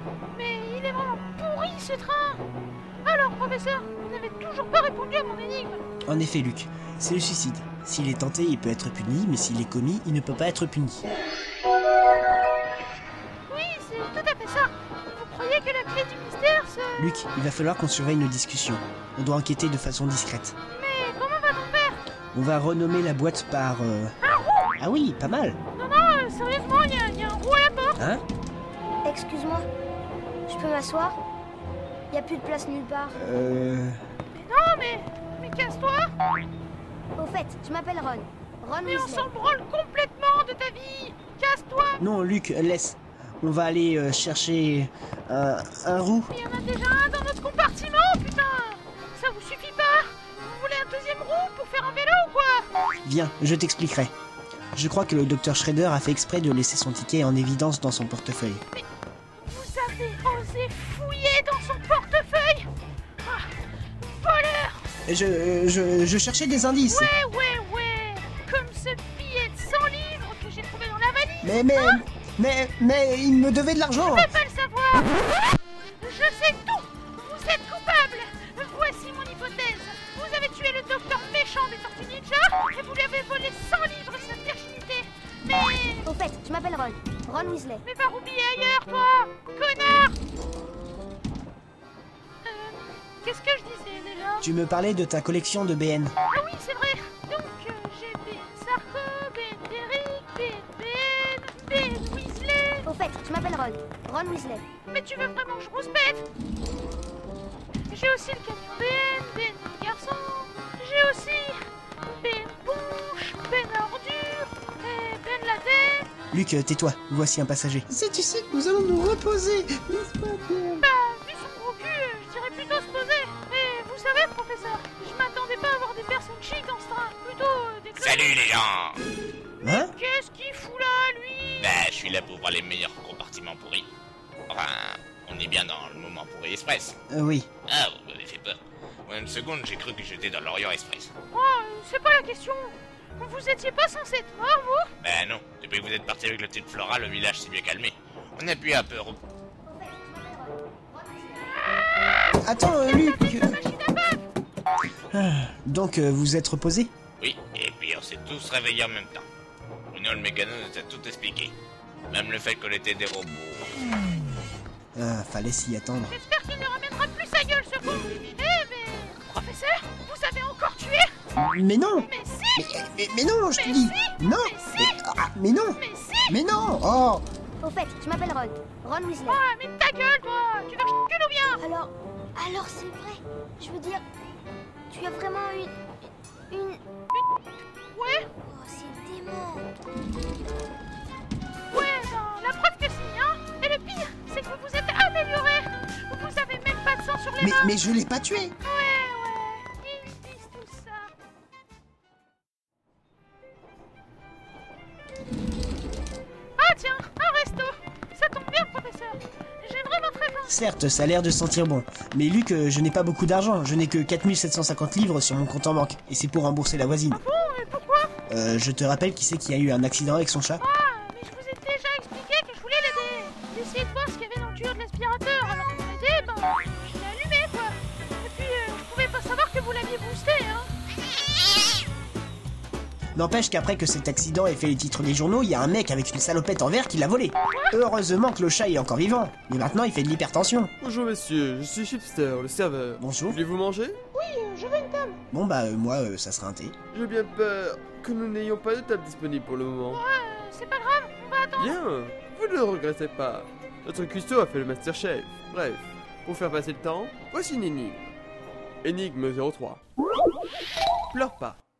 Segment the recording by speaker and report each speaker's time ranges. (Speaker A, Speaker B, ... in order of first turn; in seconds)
Speaker A: 0.3-2.4, 3.0-5.8, 13.5-17.0, 20.7-22.0, 24.2-24.7, 25.8-28.0, 34.3-36.1, 38.9-42.0, 46.3-52.7, 59.4-62.7, 63.2-63.5, 64.1-64.9, 66.9-72.0, 74.0-75.4, 76.0-86.1, 87.8-90.2, 92.4-94.5, 96.3-102.9, 104.9-106.3, 107.9-116.1, 120.8-128.2, 129.6-131.7, 141.3-144.9, 152.9-154.2, 166.1-171.2, 172.1-172.7, 173.5-175.0, 175.8-176.4, 179.3-181.6, 187.1-187.4, 187.9-188.3, 191.7-197.8, 198.6-201.1, 206.6-210.6, 217.1-218.1, 220.6-230.7, 237.5-237.8, 244.1-245.2, 249.9-251.8
Speaker B: 6.0-11.1, 17.0-20.6, 22.3-24.2, 24.8-25.6, 28.0-28.2, 33.1-34.0, 42.0-46.3, 53.0-54.1, 54.8-58.6, 65.1-67.1, 71.4-74.3, 94.4-96.1, 116.3-120.8, 129.6-129.9, 137.1-137.5, 152.4-153.6, 155.1-156.9, 165.0-166.2, 171.3-177.2, 197.4-198.6, 210.5-217.2, 218.3-220.6, 233.2-240.7, 243.0-243.4, 245.3-246.7
Speaker C: 29.1-29.7, 30.5-31.2, 32.1-33.2, 37.2-39.3, 86.0-87.8, 102.8-104.7, 149.7-151.5, 177.6-179.4, 181.6-184.0, 184.9-185.8, 186.5-186.8, 188.4-189.7
Speaker D: 128.0-129.0, 131.6-133.9, 134.5-137.0, 137.7-141.1, 145.0-149.2, 157.2-159.3, 159.9-161.6, 162.1-163.9
Speaker E: 240.8-244.0, 246.9-250.0, 251.6-258.1, 258.8-259.8, 261.1-261.6